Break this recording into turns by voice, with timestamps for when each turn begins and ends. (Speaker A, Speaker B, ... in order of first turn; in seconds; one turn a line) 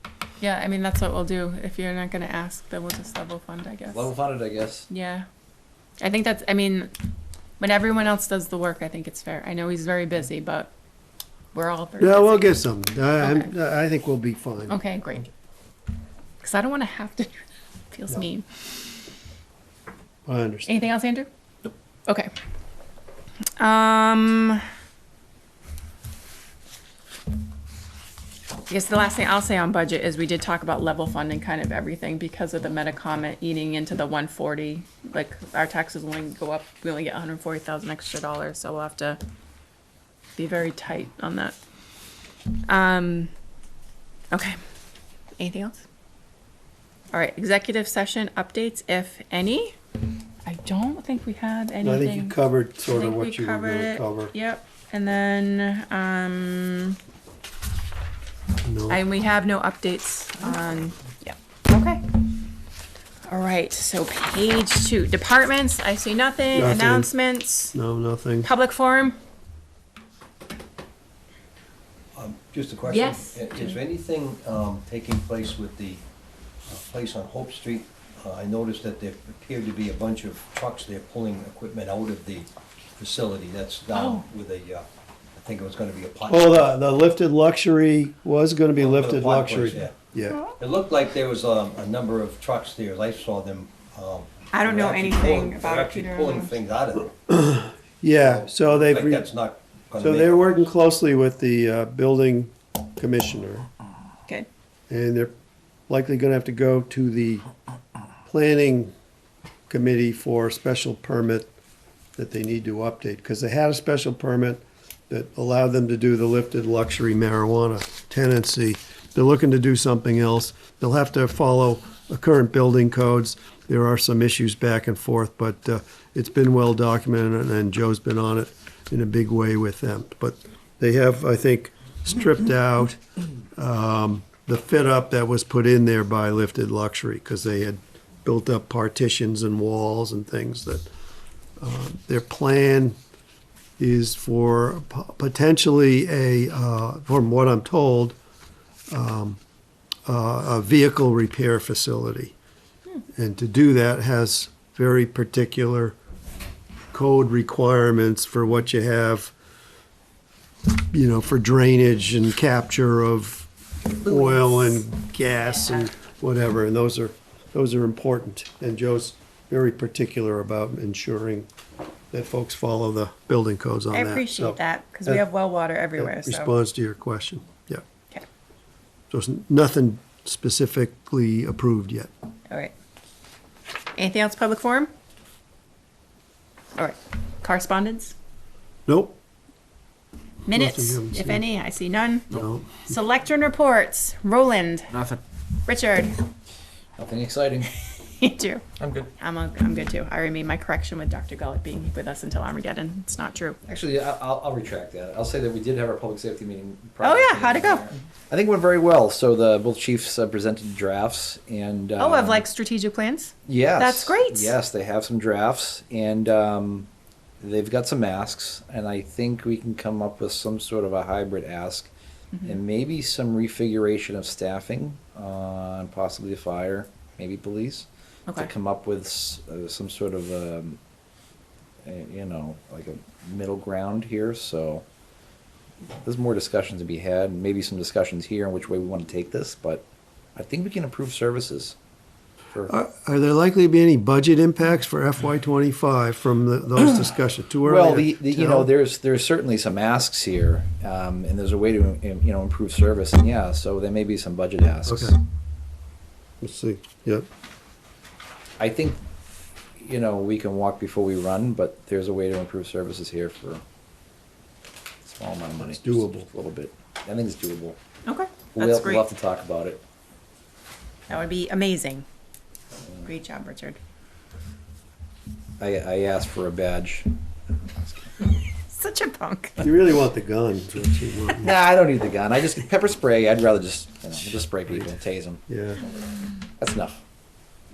Speaker A: 0.4-4.1
Speaker B: 3.9-4.9
Speaker A: 4.9-5.3
Speaker A: 6.0-6.9
Speaker A: 7.6-10.7
Speaker A: 11.5-12.6
Speaker C: 12.0-14.8
Speaker A: 13.2-13.5
Speaker A: 14.7-15.3
Speaker A: 16.4-17.3
Speaker A: 17.9-18.4
Speaker C: 20.3-20.8
Speaker A: 20.7-21.3
Speaker A: 23.6-24.6
Speaker A: 28.7-39.2
Speaker A: 40.4-41.5
Speaker A: 42.7-43.3
Speaker A: 45.4-45.8
Speaker A: 47.1-49.8
Speaker A: 50.5-57.0
Speaker C: 51.8-54.3
Speaker C: 58.6-59.0
Speaker A: 58.9-62.0
Speaker A: 63.3-67.8
Speaker C: 66.5-67.1
Speaker C: 67.7-68.5
Speaker A: 68.4-69.2
Speaker D: 72.2-76.0
Speaker A: 72.8-73.8
Speaker D: 76.7-84.8
Speaker A: 83.9-84.3
Speaker D: 85.4-86.6
Speaker C: 86.3-90.4
Speaker D: 88.8-89.9
Speaker D: 90.6-97.2
Speaker A: 94.5-96.5
Speaker C: 97.3-99.3
Speaker D: 98.2-100.6
Speaker C: 100.0-103.7
Speaker C: 104.9-105.3
Speaker C: 105.9-107.5
Speaker C: 108.3-108.9
Speaker C: 109.7-111.5
Speaker C: 112.2-133.0
Speaker C: 133.6-140.9
Speaker C: 141.6-143.0
Speaker C: 143.8-148.2
Speaker C: 148.9-149.4
Speaker C: 150.1-152.3
Speaker C: 153.2-155.9
Speaker C: 156.9-159.3
Speaker C: 160.7-171.5
Speaker A: 164.0-164.8
Speaker A: 165.6-165.9
Speaker C: 172.1-175.3
Speaker A: 173.9-176.6
Speaker C: 176.0-177.8
Speaker C: 179.1-182.1
Speaker A: 183.9-184.9
Speaker A: 186.8-188.2
Speaker C: 188.9-189.2
Speaker A: 190.5-195.0
Speaker C: 190.5-191.4
Speaker C: 192.3-192.9
Speaker A: 195.7-196.2
Speaker B: 197.0-197.7
Speaker A: 198.0-198.7
Speaker A: 199.2-203.6
Speaker B: 203.7-212.4
Speaker A: 207.0-207.9
Speaker A: 212.0-214.6
Speaker B: 213.5-216.9
Speaker B: 217.4-221.9
Speaker A: 222.3-222.6
Speaker B: 222.4-230.8
Speaker B: 231.8-234.8
Speaker B: 236.0-239.8
Speaker B: 240.4-241.8
Speaker C: 242.7-248.7
Speaker B: 247.7-255.2
Speaker C: 254.9-255.2
Speaker C: 256.4-257.3
Speaker B: 258.6-259.0
Speaker B: 259.8-263.6
Speaker B: 265.1-267.8
Speaker C: 265.6-266.3
Speaker A: 268.1-269.1
Speaker B: 268.6-269.8
Speaker A: 271.1-272.1
Speaker A: 273.0-273.8
Speaker B: 275.6-277.1
Speaker B: 277.6-278.1
Speaker A: 278.7-279.6
Speaker C: 279.6-281.5
Speaker B: 281.3-285.4
Speaker C: 285.5-285.9
Speaker B: 286.6-286.9